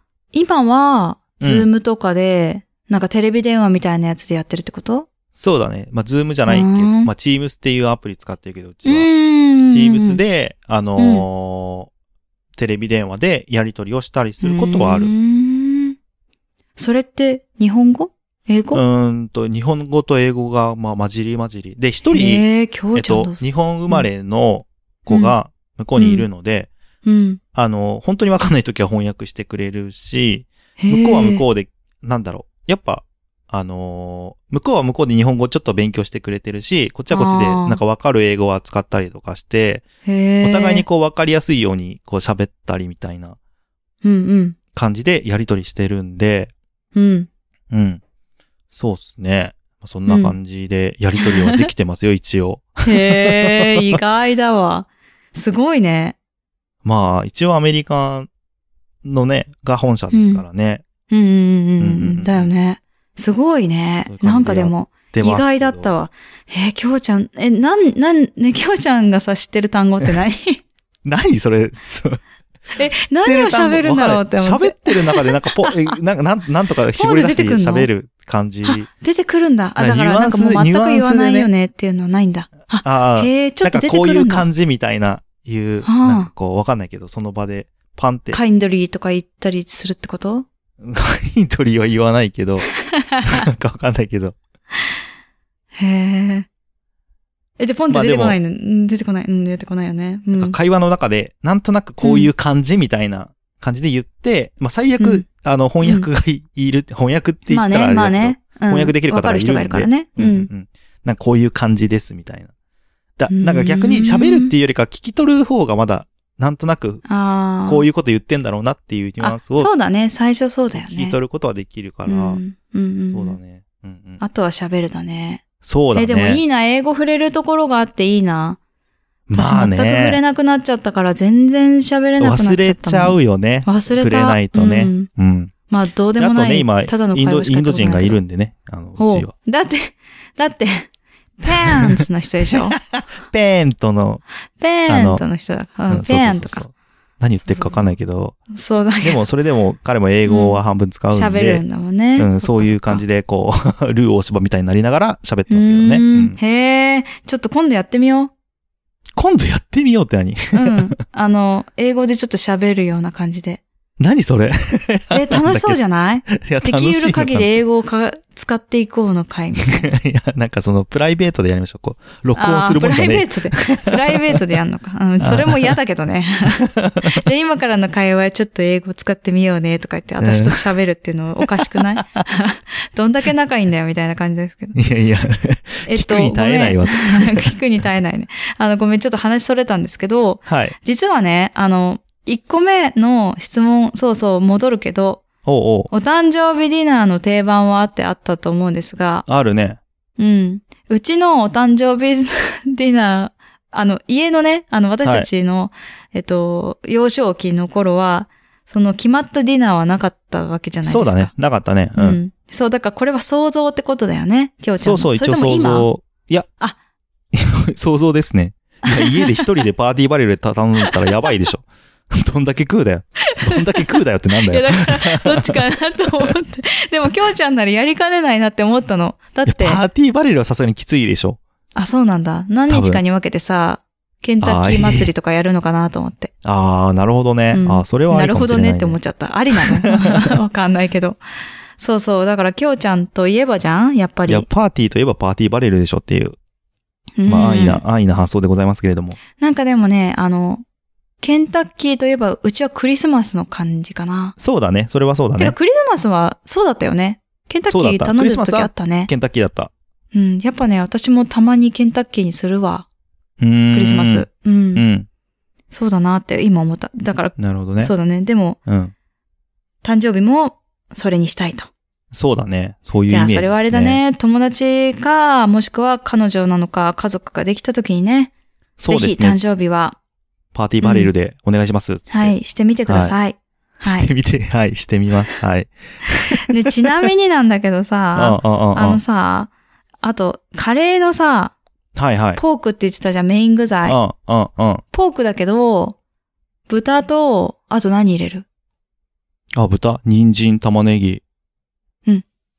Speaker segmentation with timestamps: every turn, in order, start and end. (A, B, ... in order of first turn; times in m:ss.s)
0:00.3-0:05.1 A
0:01.4-0:01.7 B
0:05.4-0:09.1 B
0:06.5-0:07.1 A
0:08.8-0:10.2 A
0:09.7-0:11.9 B
0:11.0-0:11.3 A
0:12.6-0:15.1 B
0:14.4-0:16.0 A
0:16.8-0:18.8 A
0:18.7-0:26.7 B
0:22.1-0:24.1 A
0:25.1-0:25.4 A
0:26.0-0:26.3 A
0:27.0-0:27.4 A
0:27.6-0:39.8 B
0:30.8-0:31.4 A
0:37.1-0:37.8 A
0:40.0-0:40.8 A
0:40.4-0:43.4 B
0:44.0-0:44.6 A
0:44.7-0:46.5 B
0:47.0-0:47.3 A
0:47.7-0:48.0 B
0:48.7-0:54.0 B
0:50.1-0:50.4 A
0:51.2-0:51.7 A
0:52.9-0:56.2 A
0:56.8-0:58.3 B
0:59.0-1:00.8 B
1:00.1-1:00.4 A
1:01.1-1:10.6 A
1:01.8-1:02.5 B
1:04.1-1:05.9 B
1:11.0-1:12.2 B
1:12.8-1:15.9 A
1:12.8-1:18.9 B
1:16.9-1:17.9 A
1:18.6-1:24.5 A
1:19.8-1:21.5 B
1:22.8-1:28.4 B
1:25.8-1:26.3 A
1:28.3-1:30.5 A
1:30.8-1:32.7 B
1:33.2-1:34.4 B
1:35.8-1:36.5 A
1:37.6-1:40.6 A
1:37.9-1:38.4 B
1:40.4-1:52.5 B
1:42.0-1:42.3 A
1:45.0-1:45.2 A
1:45.8-1:46.1 A
1:47.5-1:50.5 A
1:53.2-1:57.0 B
1:53.3-1:54.5 A
1:57.1-1:57.9 A
1:57.7-1:59.7 B
1:59.2-2:01.2 A
2:00.7-2:02.4 B
2:02.1-2:03.4 A
2:03.1-2:04.2 B
2:04.2-2:05.4 A
2:05.6-2:06.4 B
2:06.0-2:08.6 A
2:09.3-2:10.2 B
2:09.3-2:15.1 A
2:12.2-2:15.5 B
2:15.7-2:18.2 A
2:16.2-2:19.3 B
2:19.0-2:20.9 A
2:21.4-2:22.8 A
2:22.9-2:24.2 B
2:24.6-2:26.6 A
2:24.9-2:25.3 B
2:25.9-2:28.4 B
2:27.4-2:27.9 A
2:28.5-2:29.3 A
2:29.0-2:36.4 B
2:30.3-2:30.6 A
2:31.1-2:33.0 A
2:35.5-2:38.3 A
2:39.2-2:40.9 B
2:40.5-2:43.6 A
2:44.0-2:47.6 B
2:45.1-2:49.9 A
2:49.6-2:54.4 B
2:52.4-3:04.8 A
2:55.2-2:55.8 B
2:56.6-2:57.2 B
3:00.2-3:00.7 B
3:04.8-3:07.5 B
3:05.9-3:15.3 A
3:10.5-3:10.8 B
3:15.4-3:15.9 B
3:15.9-3:19.3 A
3:19.3-3:19.8 B
3:20.2-3:31.3 A
3:30.8-3:32.2 B
3:32.0-3:35.9 A
3:34.8-3:36.5 B
3:37.3-3:45.7 B
3:38.9-3:39.5 A
3:43.3-3:43.8 A
3:44.4-3:49.8 A
3:49.5-3:51.4 B
3:51.8-3:56.3 A
3:52.7-3:53.0 B
3:54.4-3:55.1 B
3:56.4-3:59.0 B
3:57.5-4:01.2 A
3:59.5-4:00.3 B
4:01.8-4:04.5 A
4:04.3-4:06.4 B
4:07.2-4:07.8 A
4:07.3-4:09.2 B
4:09.4-4:10.6 A
4:11.2-4:14.4 A
4:14.4-4:15.6 B
4:15.4-4:19.1 A
4:17.7-4:19.7 B
4:20.1-4:22.9 A
4:23.4-4:25.1 B
4:23.7-4:24.8 A
4:25.7-4:28.6 A
4:27.4-4:27.9 B
4:28.7-4:28.9 B
4:29.8-4:31.7 A
4:32.1-4:34.0 B
4:33.1-4:38.3 A
4:38.8-4:39.4 B
4:38.9-4:40.0 A
4:40.5-4:42.4 B
4:40.8-4:41.1 A
4:42.1-4:44.1 A
4:42.9-4:43.2 B
4:43.8-4:46.5 B
4:46.5-4:49.5 A
4:48.2-4:49.0 B
4:50.0-4:51.6 A
4:52.0-4:52.4 B
4:52.4-4:54.0 A
4:53.9-4:54.8 B
4:54.9-4:56.0 A
4:56.7-4:58.4 A
4:59.5-5:01.2 B